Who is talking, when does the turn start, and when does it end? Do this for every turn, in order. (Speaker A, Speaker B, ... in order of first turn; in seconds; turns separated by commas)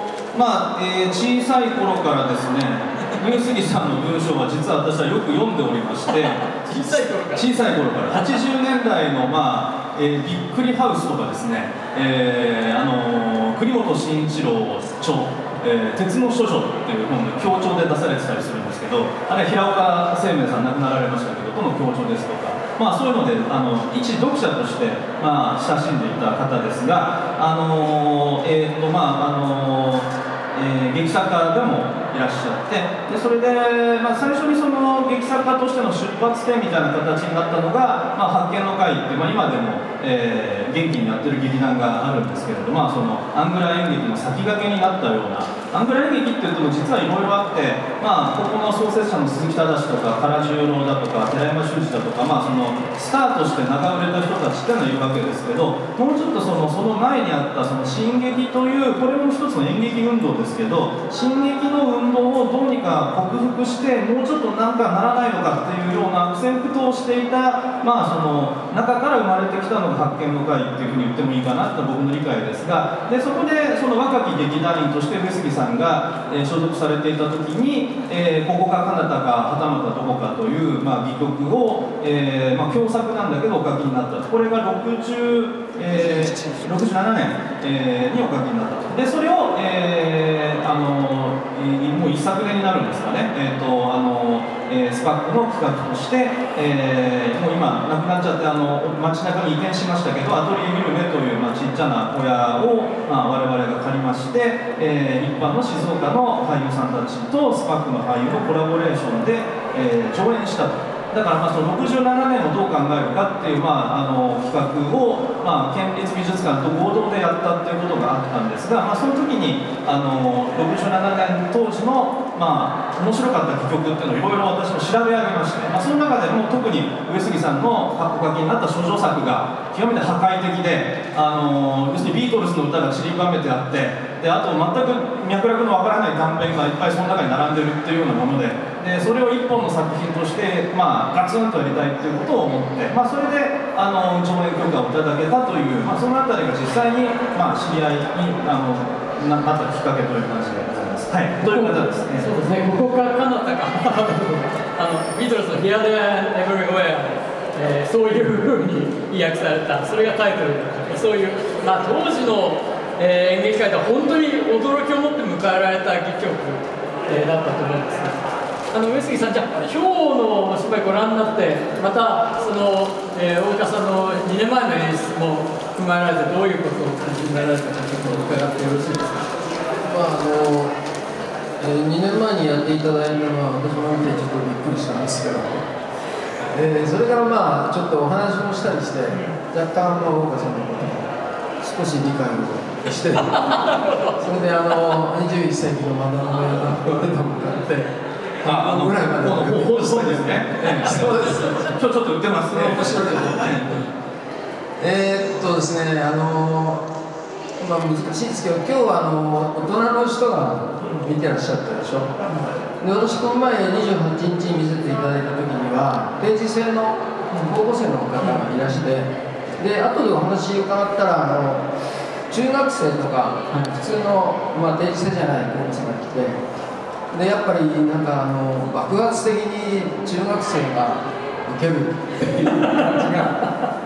Speaker A: 0.3-6.7, Speaker B: 6.5-7.5, Speaker A: 7.3-152.3, Speaker C: 85.8-86.8, Speaker B: 151.4-179.3, Speaker C: 179.8-180.8, Speaker C: 181.6-185.7, Speaker C: 186.5-191.1, Speaker C: 191.6-201.7, Speaker B: 193.3-194.2, Speaker A: 198.4-203.8, Speaker C: 202.5-203.9, Speaker C: 204.8-206.8, Speaker C: 207.6-212.2, Speaker C: 212.8-221.7, Speaker B: 218.2-218.5, Speaker C: 222.3-226.4, Speaker B: 223.5-223.8, Speaker C: 227.1-233.5